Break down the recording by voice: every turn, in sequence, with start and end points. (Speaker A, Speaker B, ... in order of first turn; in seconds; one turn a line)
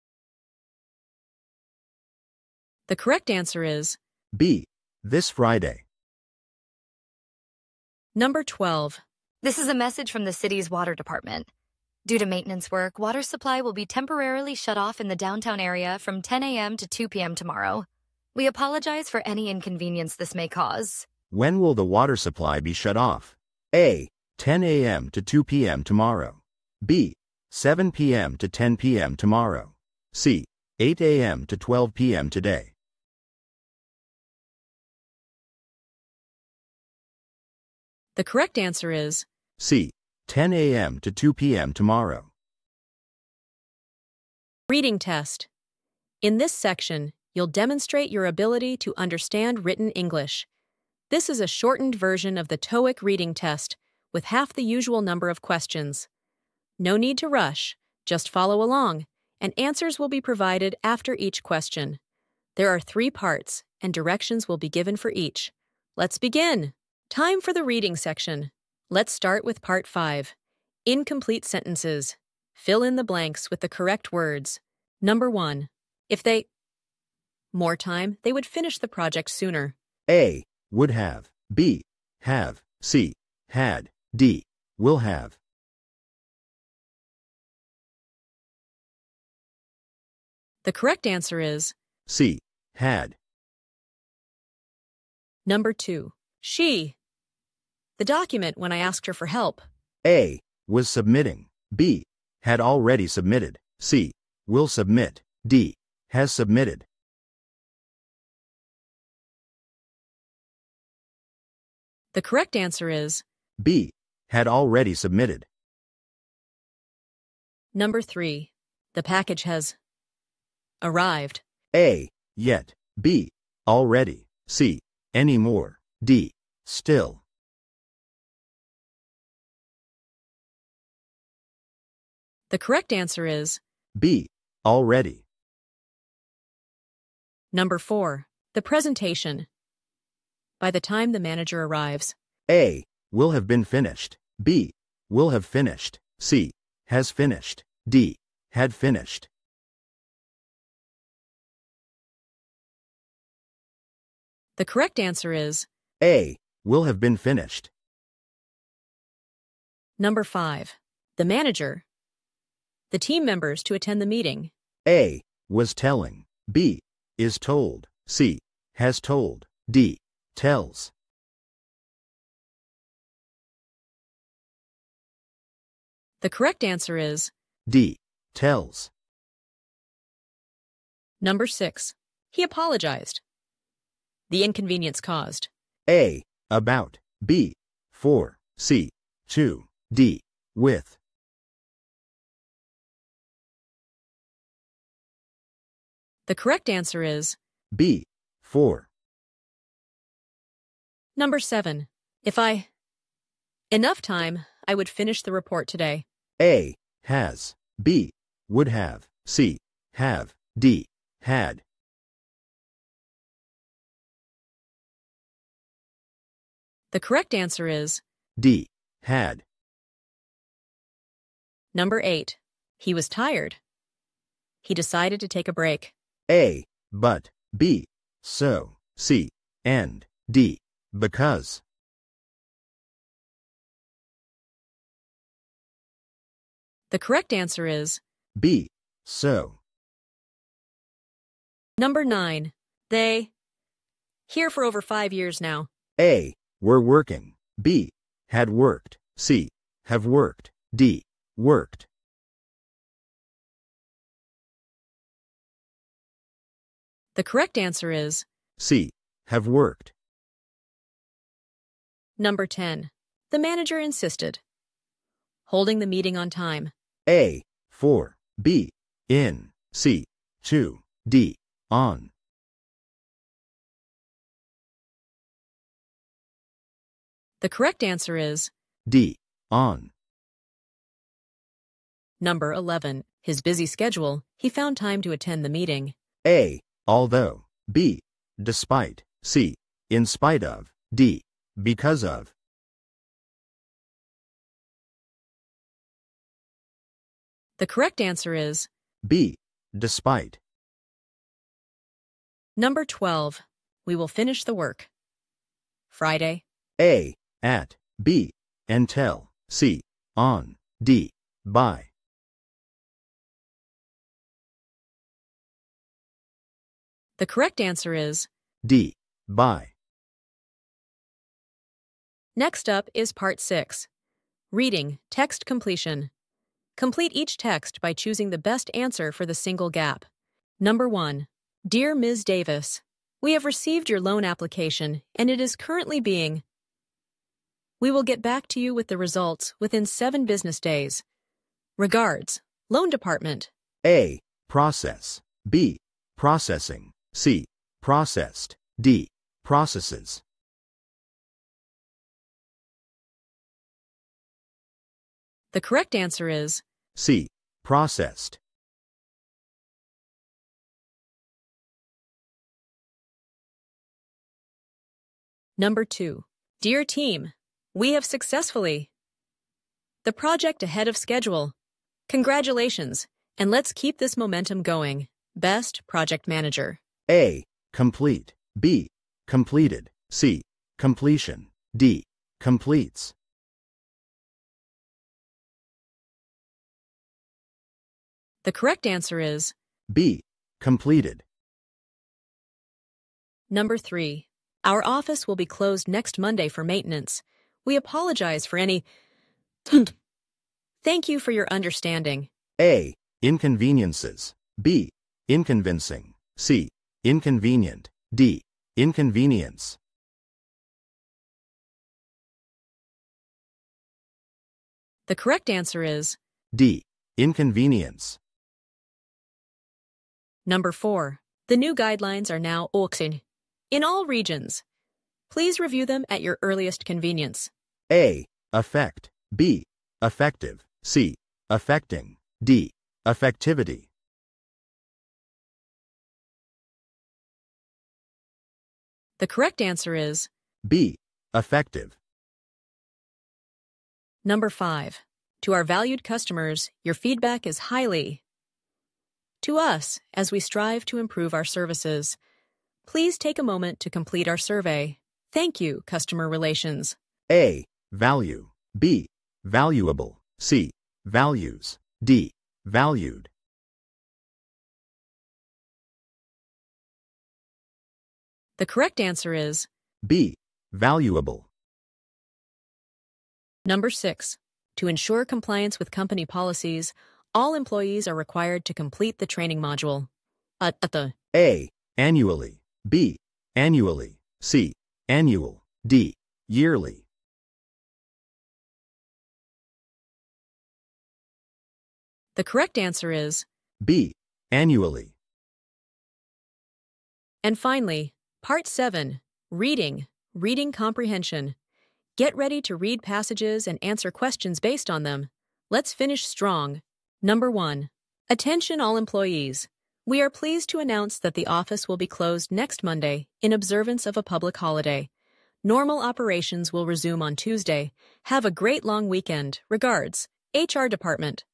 Speaker A: 2.9-4.0
Speaker B: 4.3-5.8
Speaker A: 8.1-9.0
Speaker C: 9.4-11.5
Speaker C: 12.1-21.1
Speaker B: 21.3-32.7
Speaker A: 38.1-39.2
Speaker B: 39.6-42.3
Speaker A: 44.7-45.5
Speaker A: 46.2-50.5
Speaker A: 51.1-56.1
Speaker A: 56.8-62.0
Speaker A: 62.5-70.3
Speaker A: 70.8-76.5
Speaker A: 77.5-79.7
Speaker B: 80.1-85.4
Speaker A: 90.6-91.7
Speaker B: 92.1-93.2
Speaker A: 95.5-96.9
Speaker A: 98.0-99.6
Speaker B: 100.0-106.8
Speaker A: 112.1-113.2
Speaker B: 113.6-115.5
Speaker A: 117.7-119.7
Speaker A: 120.8-121.4
Speaker B: 121.7-127.2
Speaker A: 132.5-133.6
Speaker B: 133.9-135.2
Speaker A: 137.5-139.5
Speaker A: 140.6-142.1
Speaker B: 142.5-149.3
Speaker A: 154.6-155.7
Speaker B: 156.0-157.7
Speaker A: 160.0-161.8
Speaker A: 162.9-164.5
Speaker B: 164.8-170.9
Speaker A: 176.2-177.3
Speaker B: 177.7-178.9
Speaker A: 181.2-183.2
Speaker A: 184.3-185.5
Speaker B: 185.9-191.0
Speaker A: 196.3-197.4
Speaker B: 197.7-198.9
Speaker A: 201.2-202.7
Speaker A: 203.7-206.0
Speaker B: 206.4-211.6
Speaker A: 216.9-218.0
Speaker B: 218.4-219.4
Speaker A: 221.7-223.6
Speaker A: 224.6-225.9
Speaker B: 226.3-231.6
Speaker A: 236.9-238.0
Speaker B: 238.4-239.6
Speaker A: 241.8-243.3
Speaker A: 244.3-245.7
Speaker B: 246.0-251.8
Speaker A: 257.1-258.2
Speaker B: 258.6-259.9
Speaker A: 262.2-264.4
Speaker A: 265.5-266.7
Speaker B: 267.1-272.1
Speaker A: 277.4-278.5
Speaker B: 278.9-279.9
Speaker A: 282.2-285.9
Speaker B: 286.2-292.3
Speaker A: 297.6-298.7
Speaker B: 299.0-300.4
Speaker A: 302.6-304.9
Speaker A: 305.9-306.4
Speaker B: 306.8-311.9
Speaker A: 317.2-318.3
Speaker B: 318.6-319.7
Speaker A: 322.4-323.9
Speaker A: 324.5-326.1
Speaker A: 326.8-330.1
Speaker A: 330.6-336.4
Speaker A: 337.8-341.0
Speaker A: 341.8-343.5
Speaker B: 343.8-350.2
Speaker A: 355.5-356.6
Speaker B: 356.9-358.4
Speaker A: 365.6-368.9
Speaker A: 370.0-371.5
Speaker A: 372.1-376.8
Speaker B: 377.1-383.1
Speaker A: 388.4-389.5
Speaker B: 389.9-391.2
Speaker A: 393.5-398.8
Speaker A: 400.8-402.3
Speaker B: 402.6-409.8
Speaker A: 415.1-416.2
Speaker B: 416.5-418.2
Speaker A: 420.4-424.6
Speaker A: 425.3-427.5
Speaker B: 427.9-433.9
Speaker A: 439.2-440.3
Speaker B: 440.6-441.9
Speaker A: 444.2-448.2
Speaker A: 449.4-452.2
Speaker A: 452.9-456.9
Speaker B: 457.3-463.3
Speaker A: 468.6-469.7
Speaker B: 470.0-471.4
Speaker A: 473.6-480.1
Speaker A: 480.6-481.1
Speaker B: 481.3-487.0
Speaker A: 492.4-493.4
Speaker B: 493.8-495.1
Speaker A: 497.4-501.6
Speaker A: 502.2-515.1
Speaker A: 515.6-521.4